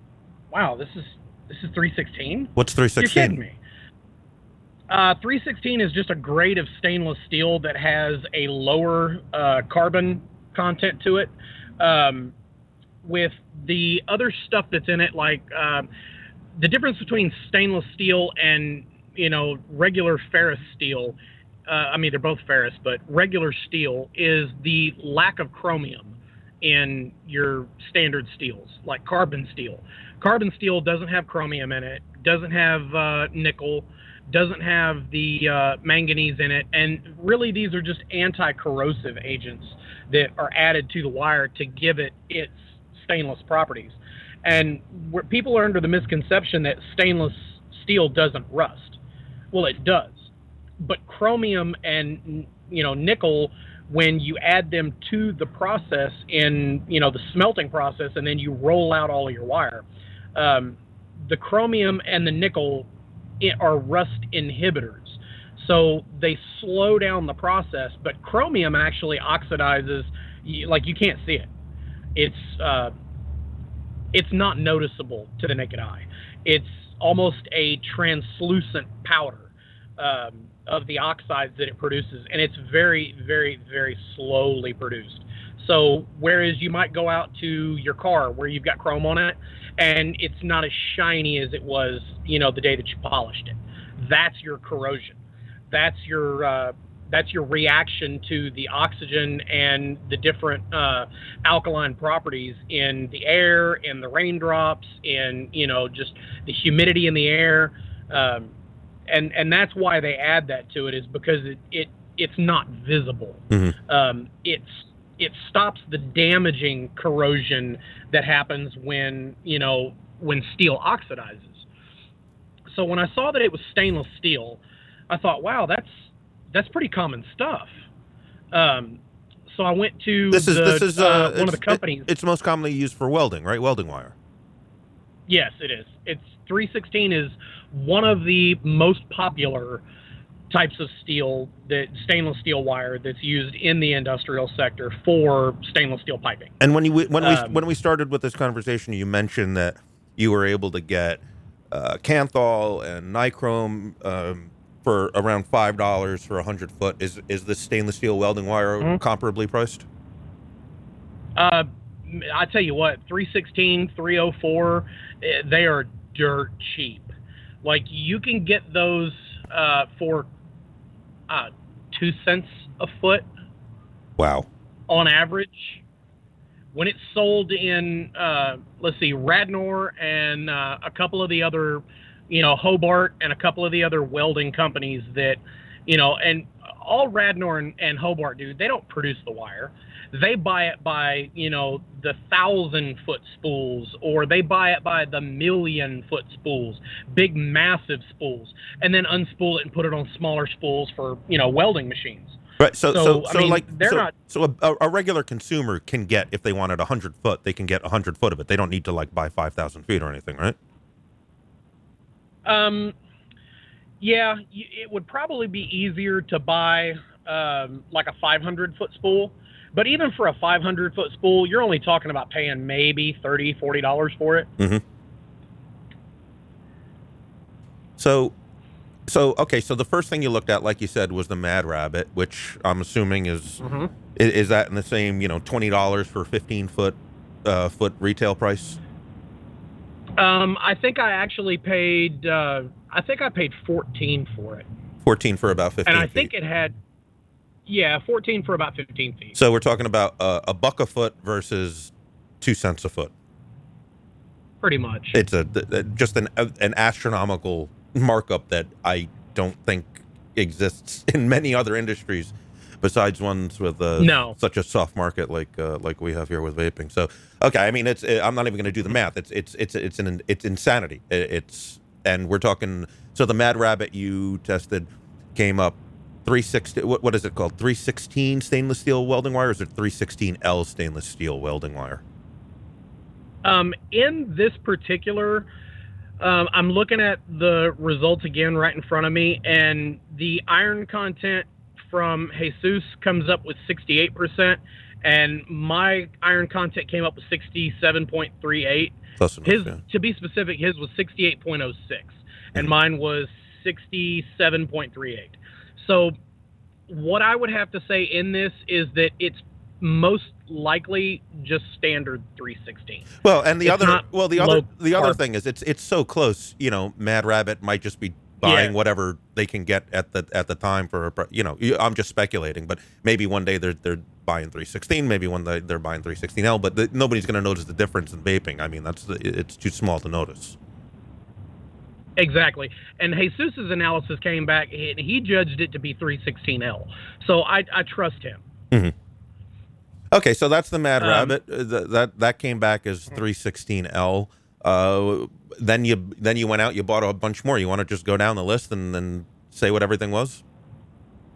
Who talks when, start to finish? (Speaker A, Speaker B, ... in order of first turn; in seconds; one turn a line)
Speaker A: 0.5-3.6
Speaker B: 2.6-3.4
Speaker A: 4.9-12.3
Speaker A: 13.0-15.9
Speaker A: 16.6-49.0
Speaker A: 49.5-62.9
Speaker A: 63.4-71.5
Speaker A: 72.2-72.9
Speaker A: 74.1-95.2
Speaker A: 95.7-108.5
Speaker A: 109.1-121.6
Speaker B: 113.5-113.8
Speaker A: 122.7-127.7
Speaker A: 128.5-132.1
Speaker B: 130.3-134.1
Speaker A: 135.3-139.8
Speaker A: 140.5-146.5
Speaker B: 146.6-159.8
Speaker A: 147.2-147.6
Speaker A: 161.3-170.3
Speaker A: 171.3-173.3
Speaker B: 174.2-174.5
Speaker A: 174.9-175.8
Speaker A: 176.7-202.4
Speaker B: 202.6-210.6
Speaker A: 202.9-204.1
Speaker A: 212.4-212.9
Speaker A: 214.0-224.5
Speaker B: 228.0-228.3
Speaker B: 229.1-233.6
Speaker A: 233.6-233.9
Speaker B: 234.2-238.8
Speaker A: 240.2-244.7
Speaker B: 245.0-246.3
Speaker A: 245.8-246.8
Speaker A: 247.7-249.4
Speaker B: 249.3-253.1
Speaker A: 254.6-255.2
Speaker B: 255.1-282.0
Speaker A: 264.0-264.4
Speaker A: 283.4-285.5
Speaker A: 286.2-306.2
Speaker B: 299.2-299.8
Speaker A: 306.9-313.1
Speaker B: 313.2-330.6
Speaker A: 313.6-315.2
Speaker A: 318.4-318.7
Speaker A: 332.1-338.4
Speaker B: 340.1-350.4
Speaker A: 341.0-341.4